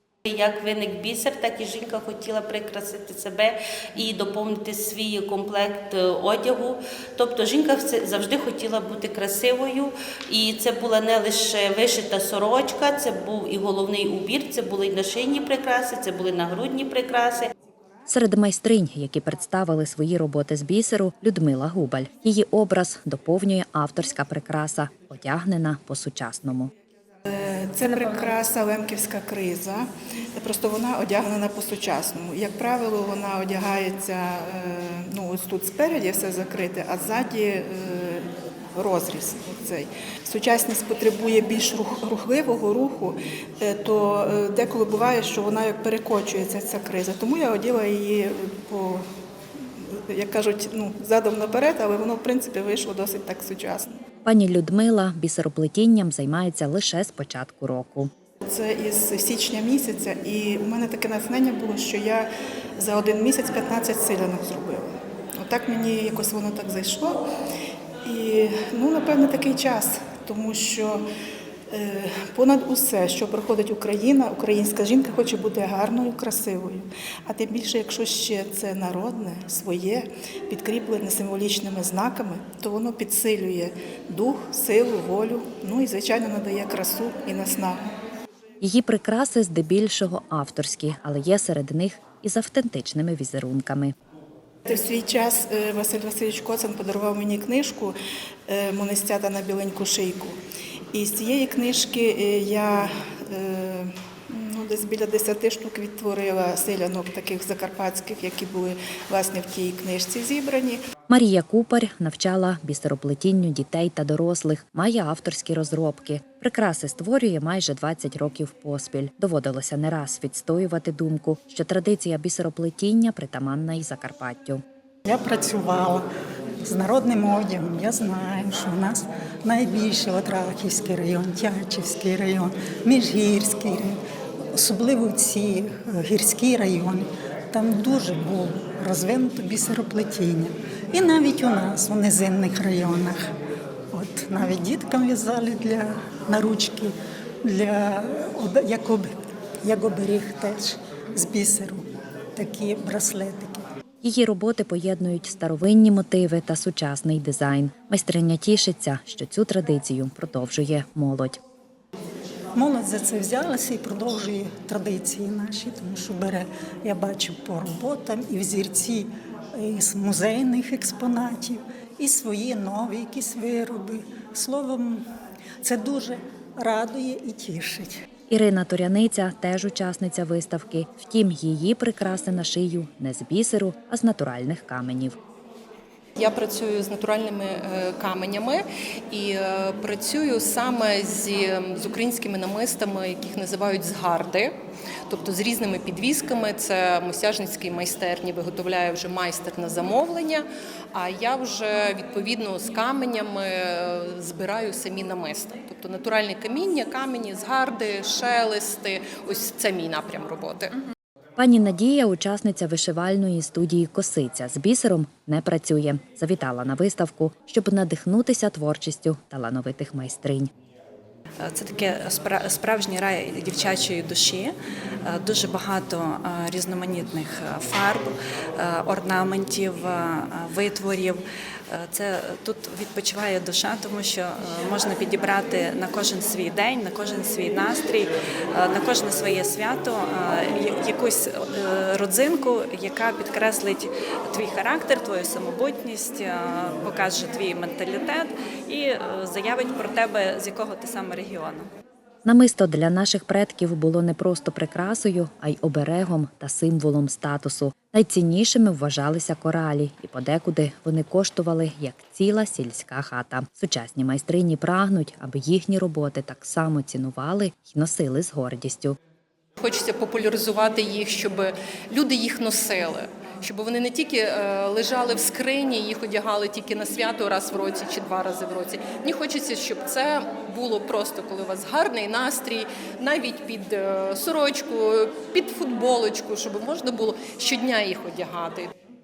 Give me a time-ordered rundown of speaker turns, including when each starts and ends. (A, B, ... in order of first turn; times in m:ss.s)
0:00.3-0:17.5 A
0:18.1-0:26.7 B
0:27.3-0:49.0 C
0:49.8-0:54.0 C
0:54.3-0:58.1 B
0:58.4-1:07.2 C
1:08.0-1:11.0 C
1:11.7-1:27.8 C
1:28.6-1:33.9 B
1:34.7-1:38.0 C
1:38.5-1:40.4 C
1:40.9-1:50.8 C
1:51.1-2:04.6 B
2:05.1-2:06.0 D
2:06.6-2:14.0 D
2:14.6-2:23.2 D
2:23.9-2:26.9 D
2:27.5-2:29.1 D
2:29.6-2:31.8 D
2:32.4-2:33.6 D
2:34.0-2:41.4 B
2:42.6-2:55.0 D
2:55.6-2:57.9 D
2:58.3-3:05.2 B
3:06.2-3:14.5 E
3:15.1-3:30.7 E
3:31.4-3:40.5 B
3:41.4-3:44.5 F
3:45.0-4:11.7 F
4:12.3-4:29.0 B
4:29.6-4:48.7 E